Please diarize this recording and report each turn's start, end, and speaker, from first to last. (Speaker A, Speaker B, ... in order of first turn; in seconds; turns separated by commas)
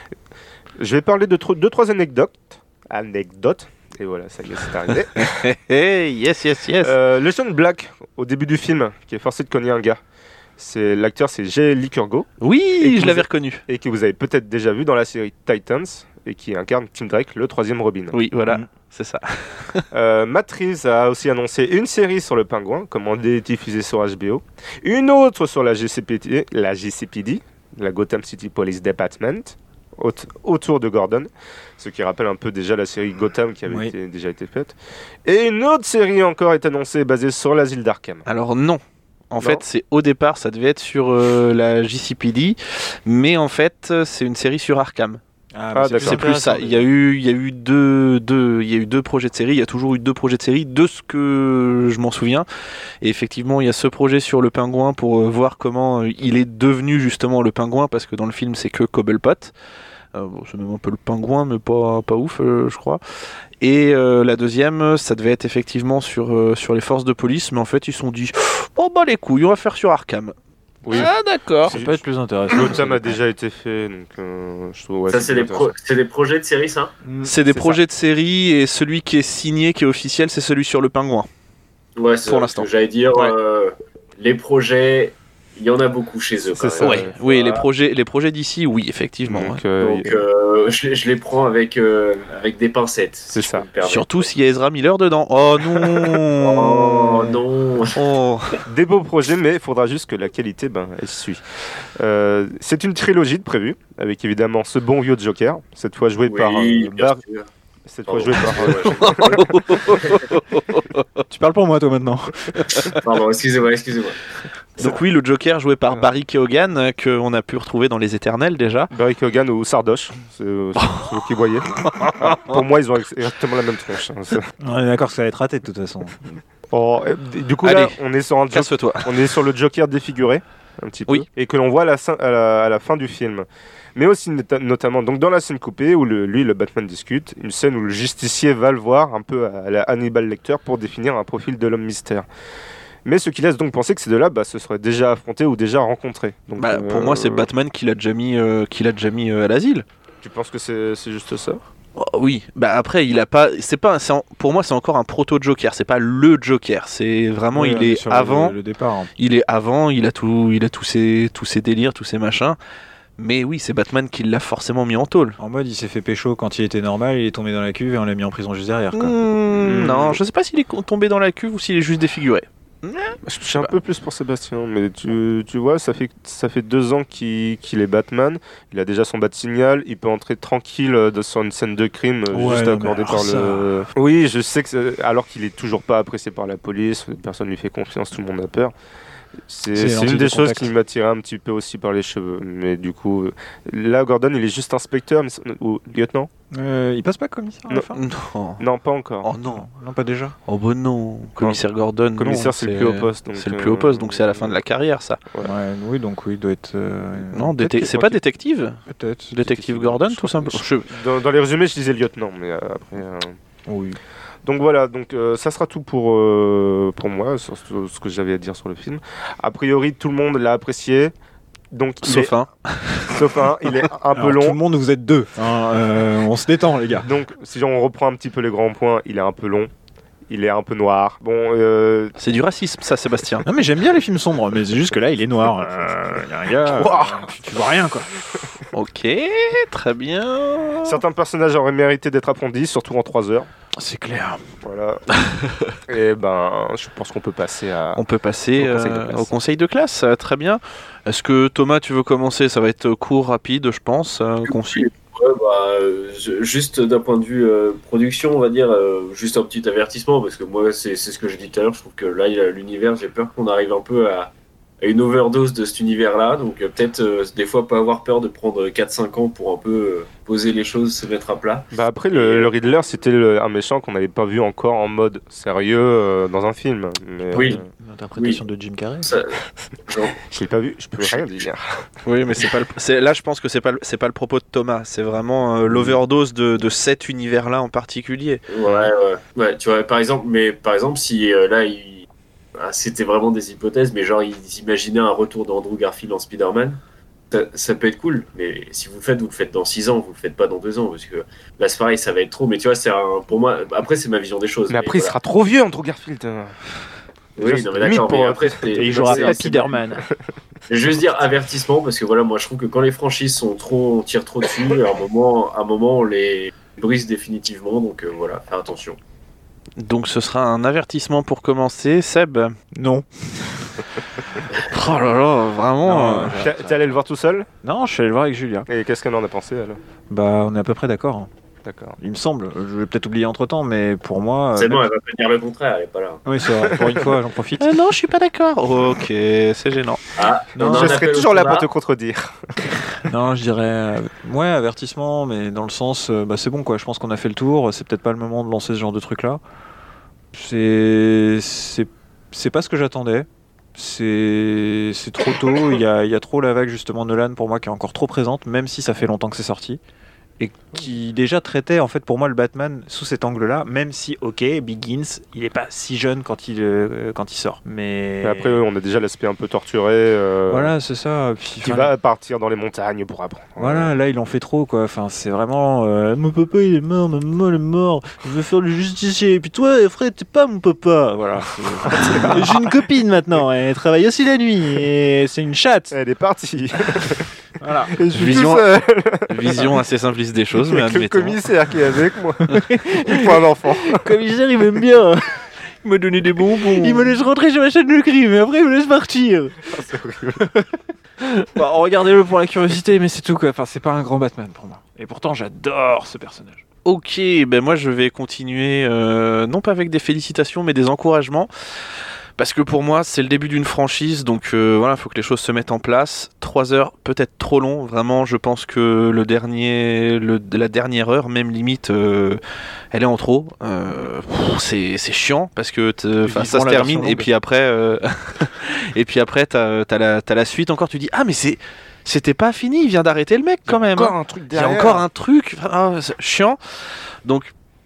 Speaker A: 0.8-5.5, Speaker B: 5.2-6.9, Speaker A: 6.8-10.0, Speaker A: 10.6-12.3, Speaker B: 12.4-13.6, Speaker A: 12.8-18.2, Speaker B: 18.1-19.8, Speaker A: 19.9-38.2, Speaker C: 33.7-33.9, Speaker B: 38.3-45.2, Speaker A: 39.4-39.6, Speaker C: 45.5-46.9, Speaker A: 45.8-46.3, Speaker B: 45.9-52.5, Speaker B: 53.0-59.5, Speaker B: 60.1-63.0, Speaker B: 63.6-70.3, Speaker A: 70.8-71.1, Speaker B: 70.9-71.8, Speaker C: 70.9-73.2, Speaker A: 71.7-75.7, Speaker D: 75.1-76.9, Speaker C: 77.0-77.3, Speaker B: 77.2-81.3, Speaker A: 77.5-77.8, Speaker D: 82.0-87.6, Speaker B: 82.3-82.7, Speaker A: 86.6-87.2, Speaker B: 86.8-89.6, Speaker A: 89.2-90.2, Speaker D: 89.8-94.3, Speaker A: 93.3-93.7, Speaker B: 93.8-97.3, Speaker D: 96.4-98.0, Speaker B: 97.9-98.6, Speaker A: 98.7-107.2, Speaker D: 106.3-107.5, Speaker A: 107.9-109.6, Speaker D: 108.1-109.4, Speaker B: 109.0-111.0, Speaker C: 111.3-112.6, Speaker D: 113.0-114.2, Speaker B: 114.8-118.9, Speaker A: 118.9-124.5, Speaker B: 120.8-121.2, Speaker B: 121.8-122.6, Speaker C: 124.6-126.2, Speaker A: 126.7-142.3, Speaker B: 127.6-128.0, Speaker B: 128.5-129.1, Speaker A: 143.1-147.5, Speaker B: 146.6-149.8, Speaker A: 150.2-151.6, Speaker B: 152.0-158.6, Speaker C: 157.5-159.1, Speaker B: 159.2-162.6, Speaker B: 163.2-165.4, Speaker C: 165.4-169.1, Speaker B: 168.9-173.7, Speaker A: 169.5-170.2, Speaker A: 173.2-188.7, Speaker C: 182.3-183.9, Speaker A: 189.5-196.3, Speaker C: 189.8-190.7, Speaker C: 196.5-198.0, Speaker B: 197.9-198.6, Speaker A: 198.6-199.3, Speaker B: 199.2-199.7, Speaker C: 199.4-200.4, Speaker B: 200.5-205.2, Speaker A: 202.2-204.6, Speaker C: 205.4-207.6, Speaker B: 207.3-208.8, Speaker A: 207.6-208.2, Speaker C: 208.9-209.3, Speaker B: 209.3-210.9, Speaker A: 209.4-213.4, Speaker C: 213.7-214.0, Speaker A: 214.4-221.1, Speaker A: 221.7-222.3, Speaker B: 222.0-223.3, Speaker A: 223.1-224.6, Speaker C: 224.1-227.1, Speaker A: 227.0-229.7, Speaker A: 230.3-232.2, Speaker B: 232.2-233.4, Speaker C: 233.4-238.6, Speaker A: 236.6-237.3, Speaker B: 238.7-241.0, Speaker A: 240.8-243.5, Speaker C: 243.8-244.4, Speaker A: 244.6-245.0, Speaker A: 245.9-248.0, Speaker B: 247.9-254.9, Speaker A: 248.6-249.4, Speaker D: 254.7-272.5, Speaker A: 271.7-277.7, Speaker C: 277.3-279.1, Speaker D: 277.3-277.6, Speaker D: 278.2-278.4, Speaker D: 279.0-280.2, Speaker A: 280.2-281.6, Speaker B: 282.1-288.9, Speaker A: 285.7-286.0, Speaker D: 288.5-296.8, Speaker D: 297.3-305.2, Speaker A: 304.7-306.6, Speaker D: 307.4-309.7, Speaker A: 307.4-310.1, Speaker C: 308.7-310.1, Speaker D: 310.7-319.0, Speaker B: 319.8-322.6, Speaker C: 322.7-323.8, Speaker B: 324.6-326.5, Speaker C: 325.8-326.8, Speaker A: 326.4-327.5, Speaker C: 327.6-328.7, Speaker A: 328.7-329.8, Speaker C: 330.1-331.3, Speaker A: 331.6-332.0, Speaker C: 332.0-334.8, Speaker D: 334.5-336.2, Speaker C: 336.2-337.7, Speaker A: 336.6-337.1, Speaker B: 337.6-340.0, Speaker D: 340.2-341.7, Speaker C: 340.6-341.0, Speaker A: 340.6-342.8, Speaker C: 343.1-349.4, Speaker C: 350.3-359.8, Speaker C: 360.4-368.6, Speaker A: 368.2-370.7, Speaker C: 370.5-371.9, Speaker A: 371.6-373.9, Speaker C: 373.6-385.9, Speaker A: 381.9-382.5, Speaker A: 385.9-387.3, Speaker C: 387.6-388.5, Speaker A: 387.9-389.8, Speaker B: 388.2-388.7, Speaker B: 389.3-391.4, Speaker C: 389.5-389.8, Speaker A: 390.6-394.1, Speaker C: 392.5-399.6, Speaker B: 396.8-397.1, Speaker A: 399.7-400.4, Speaker C: 400.4-400.7, Speaker C: 401.2-406.6, Speaker B: 406.9-411.5, Speaker B: 412.4-422.4, Speaker B: 422.9-436.6, Speaker C: 426.2-427.3, Speaker A: 433.7-435.1, Speaker B: 437.2-437.5